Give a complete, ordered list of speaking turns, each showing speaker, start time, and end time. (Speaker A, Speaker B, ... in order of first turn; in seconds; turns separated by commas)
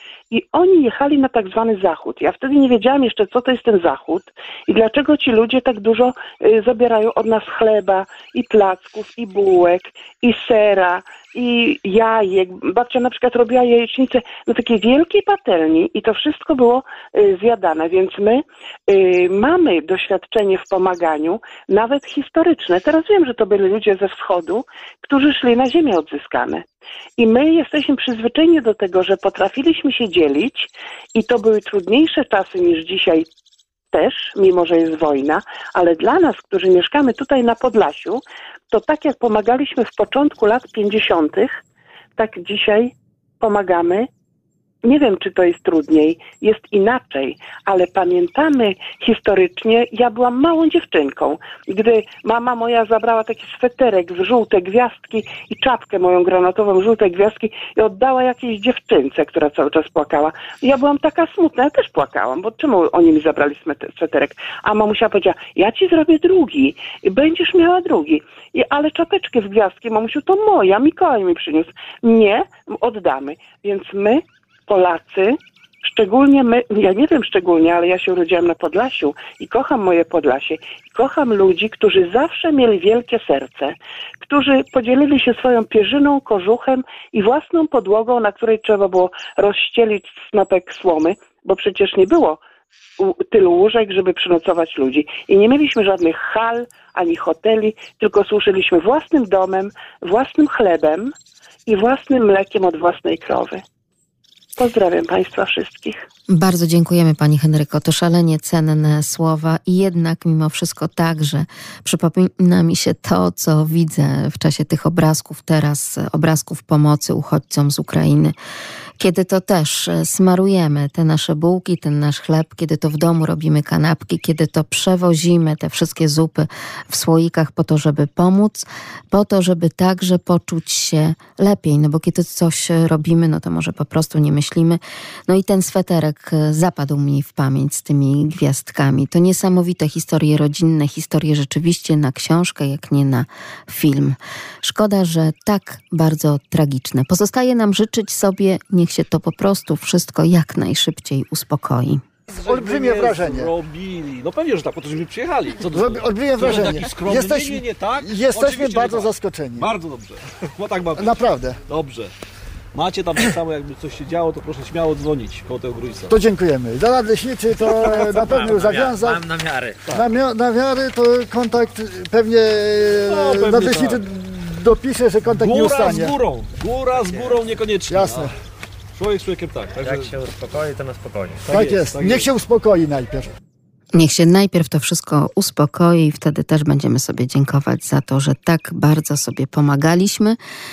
Speaker A: 0.3-26.6, Speaker A: 27.2-33.2, Speaker A: 33.9-41.6, Speaker A: 42.2-44.1, Speaker A: 44.8-92.4, Speaker A: 93.0-101.1, Speaker A: 101.7-103.6, Speaker A: 104.6-106.0, Speaker B: 106.3-118.3, Speaker B: 119.0-152.0, Speaker C: 152.3-161.2, Speaker D: 152.4-153.5, Speaker D: 155.7-159.7, Speaker D: 160.9-161.6, Speaker C: 161.7-162.1, Speaker C: 162.7-166.1, Speaker D: 166.1-169.2, Speaker C: 167.6-168.9, Speaker E: 169.1-169.8, Speaker D: 169.9-176.2, Speaker C: 173.0-174.0, Speaker C: 175.2-178.3, Speaker D: 177.9-178.3, Speaker C: 178.9-180.1, Speaker E: 179.8-181.5, Speaker C: 181.5-182.3, Speaker D: 181.5-183.3, Speaker B: 183.9-190.4